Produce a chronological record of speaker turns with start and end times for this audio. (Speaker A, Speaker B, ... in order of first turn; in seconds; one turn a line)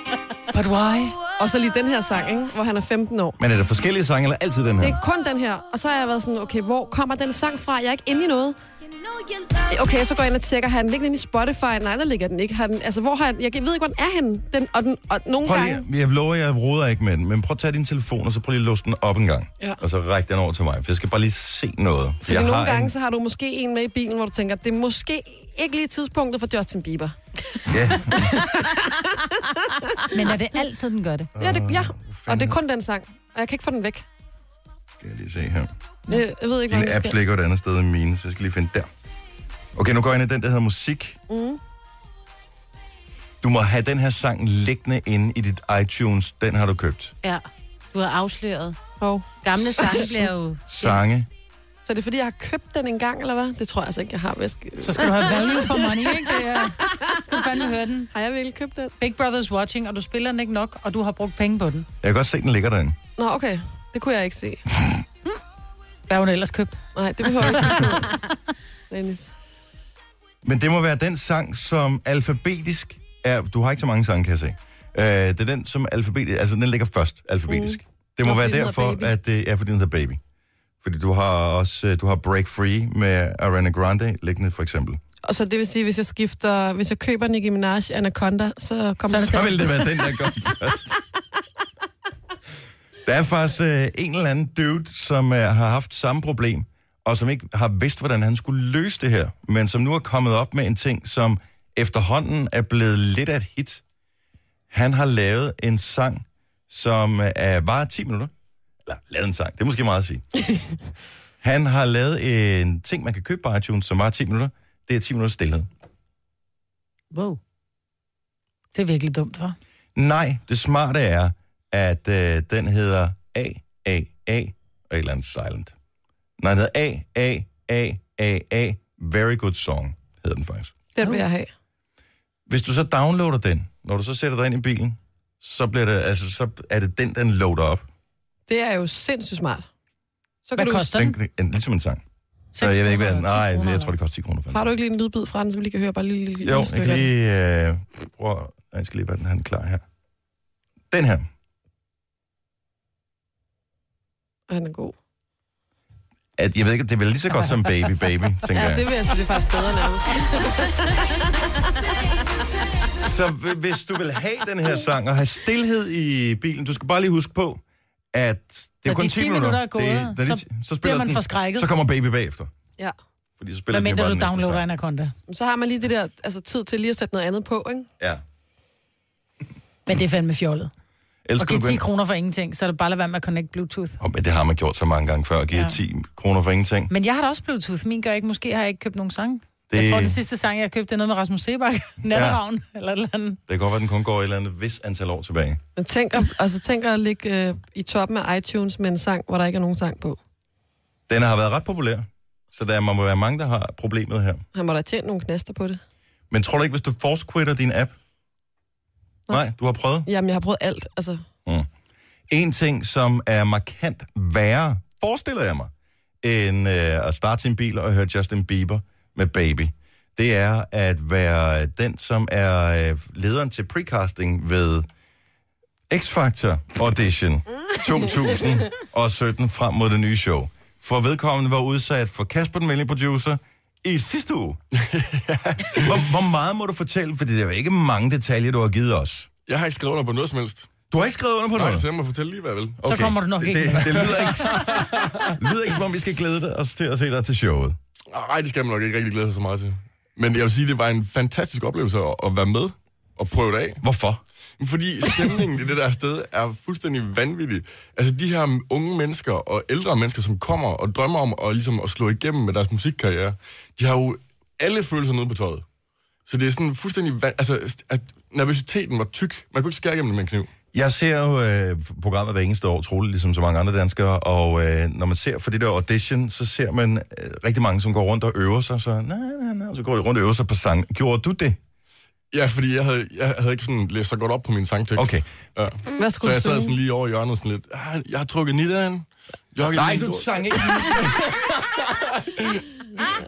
Speaker A: 0.5-1.2
Speaker B: 1.4-3.4
Speaker C: 3.4-5.0
Speaker B: 4.8-8.6
Speaker B: 9.7-15.8
Speaker C: 15.4-22.9
Speaker B: 22.2-27.2
Speaker C: 27.7-28.4
Speaker B: 28.1-29.4
Speaker A: 30.1-31.3
Speaker C: 31.4-32.6
Speaker B: 31.4-34.0
Speaker C: 35.0-35.7
Speaker B: 36.1-37.2
Speaker C: 36.7-38.9
Speaker C: 39.8-41.2
Speaker B: 41.3-41.6
Speaker C: 43.4-47.1
Speaker D: 47.2-48.8
Speaker B: 49.0-50.1
Speaker D: 49.4-51.0
Speaker C: 50.7-51.3
Speaker B: 51.9-56.3
Speaker A: 54.8-58.1
Speaker B: 58.1-59.0
Speaker A: 59.0-61.9
Speaker C: 62.0-63.0
Speaker B: 63.2-64.6
Speaker A: 66.1-66.8
Speaker B: 67.0-68.2
Speaker B: 68.9-69.3
Speaker C: 70.4-80.2
Speaker B: 77.5-79.1
Speaker C: 80.8-85.0
Speaker B: 85.2-89.9
Speaker A: 89.1-89.6
Speaker C: 89.2-91.0
Speaker C: 93.0-103.8
Speaker C: 104.7-108.3
Speaker C: 108.9-110.2
Speaker C: 111.4-115.7
Speaker A: 118.7-119.6
Speaker C: 120.0-125.8
Speaker C: 126.4-130.7
Speaker B: 130.9-131.5
Speaker C: 132.5-137.9
Speaker B: 138.5-139.7
Speaker B: 140.4-140.9
Speaker A: 140.6-141.1
Speaker C: 140.9-142.0
Speaker A: 142.5-143.9
Speaker C: 142.6-144.7
Speaker B: 144.5-147.1
Speaker C: 146.4-149.8
Speaker C: 150.9-151.3
Speaker B: 154.5-154.9
Speaker C: 156.4-158.9
Speaker B: 158.5-161.0
Speaker C: 163.0-167.6
Speaker C: 168.1-172.5
Speaker A: 168.9-171.7
Speaker C: 173.4-174.6
Speaker A: 173.7-175.1
Speaker B: 175.3-177.9
Speaker A: 179.9-180.7
Speaker C: 181.2-181.8
Speaker A: 181.4-184.0
Speaker C: 184.0-186.9
Speaker A: 186.9-193.4
Speaker C: 189.7-190.2
Speaker C: 192.1-192.4
Speaker C: 193.5-195.6
Speaker B: 195.8-200.2
Speaker C: 201.1-204.4
Speaker B: 204.5-205.8
Speaker C: 206.3-207.9
Speaker C: 209.3-210.1
Speaker B: 210.1-211.2
Speaker C: 212.3-215.7
Speaker C: 216.2-224.9
Speaker C: 225.9-234.6
Speaker E: 234.8-235.9
Speaker C: 235.7-239.3
Speaker E: 239.4-240.7
Speaker C: 240.9-241.9
Speaker E: 241.6-242.8
Speaker C: 242.8-247.8
Speaker A: 242.8-244.1
Speaker E: 243.8-245.4
Speaker E: 248.1-253.8
Speaker C: 253.8-254.2
Speaker E: 254.6-265.6
Speaker E: 266.3-270.5
Speaker C: 270.7-281.6
Speaker E: 282.3-293.1
Speaker C: 285.0-285.2
Speaker B: 286.0-286.8
Speaker C: 289.6-291.0